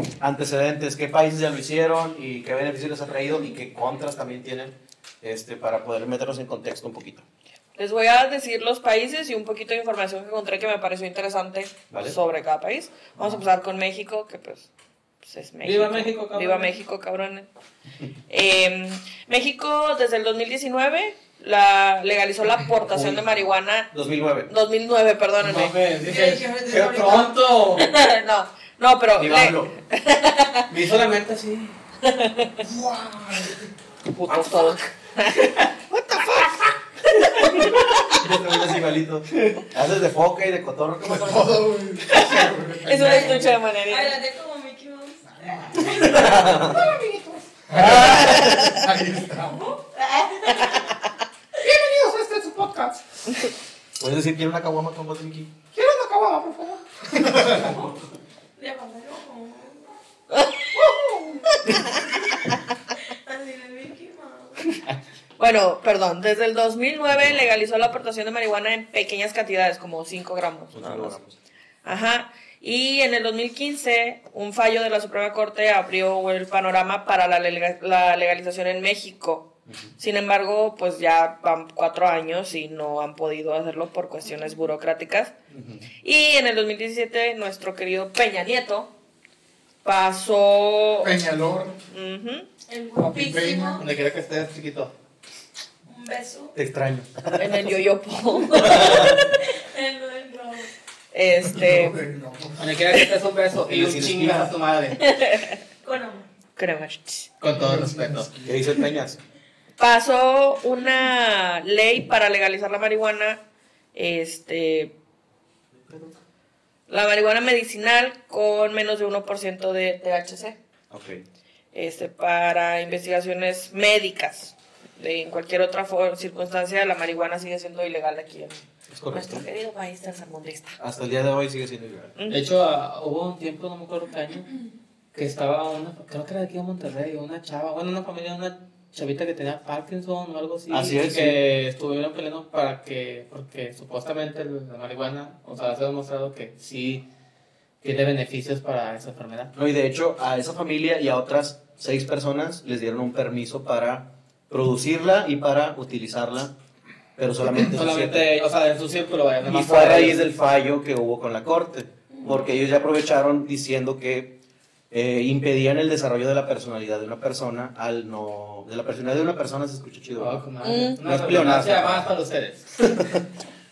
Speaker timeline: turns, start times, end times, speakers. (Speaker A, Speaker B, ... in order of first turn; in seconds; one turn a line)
Speaker A: 0.2-7.2
Speaker B: 7.8-14.7
Speaker A: 11.9-12.2
Speaker B: 15.2-17.5
Speaker C: 15.6-16.7
Speaker B: 18.3-23.9
Speaker A: 22.9-23.3
Speaker A: 23.9-24.5
Speaker B: 24.5-25.7
Speaker C: 25.4-27.9
Speaker D: 26.0-27.3
Speaker B: 27.8-30.7
Speaker A: 29.1-29.7
Speaker C: 30.7-31.8
Speaker B: 32.0-32.6
Speaker E: 32.6-33.7
Speaker B: 34.1-35.6
Speaker A: 38.1-41.7
Speaker E: 41.0-43.5
Speaker B: 42.1-44.2
Speaker D: 43.0-46.2
Speaker E: 45.2-46.6
Speaker A: 45.9-46.9
Speaker C: 46.2-48.5
Speaker E: 47.7-49.7
Speaker A: 47.8-48.4
Speaker B: 48.0-48.8
Speaker D: 49.6-51.0
Speaker B: 50.6-50.9
Speaker C: 51.6-53.0
Speaker A: 54.0-55.6
Speaker C: 55.7-56.8
Speaker C: 57.5-57.7
Speaker D: 58.6-59.9
Speaker B: 60.3-60.7
Speaker D: 60.8-62.4
Speaker B: 61.6-61.9
Speaker D: 63.0-64.7
Speaker B: 65.4-71.2
Speaker A: 67.1-67.5
Speaker A: 70.7-71.3
Speaker B: 71.8-85.3
Speaker A: 85.5-85.9
Speaker B: 86.0-88.9
Speaker B: 89.8-91.1
Speaker E: 91.0-91.8
Speaker B: 91.9-92.5
Speaker D: 92.7-93.8
Speaker E: 93.0-93.8
Speaker C: 93.8-94.9
Speaker D: 95.9-96.5
Speaker A: 96.5-97.7
Speaker B: 97.3-99.2
Speaker A: 98.5-99.3
Speaker D: 98.6-100.7
Speaker B: 101.1-102.0
Speaker E: 101.5-102.7
Speaker C: 102.6-105.0
Speaker A: 103.7-104.5
Speaker B: 105.0-105.6
Speaker D: 105.8-106.3
Speaker B: 106.5-107.3
Speaker C: 107.4-108.3
Speaker E: 107.5-108.8
Speaker A: 108.5-109.2
Speaker B: 109.8-113.4
Speaker B: 113.9-114.9
Speaker A: 115.7-116.1
Speaker B: 116.9-120.6
Speaker A: 120.9-121.2
Speaker B: 121.7-130.8
Speaker A: 128.9-129.4
Speaker A: 130.8-132.1
Speaker B: 132.2-132.4
Speaker C: 132.3-134.5
Speaker C: 135.1-147.0
Speaker A: 140.7-141.4
Speaker C: 147.8-149.5
Speaker A: 149.5-156.5
Speaker A: 157.2-158.3
Speaker C: 157.5-160.2
Speaker A: 159.4-164.4
Speaker A: 164.9-170.4
Speaker C: 170.2-172.7
Speaker B: 170.6-171.0
Speaker A: 171.0-172.1
Speaker A: 172.8-173.2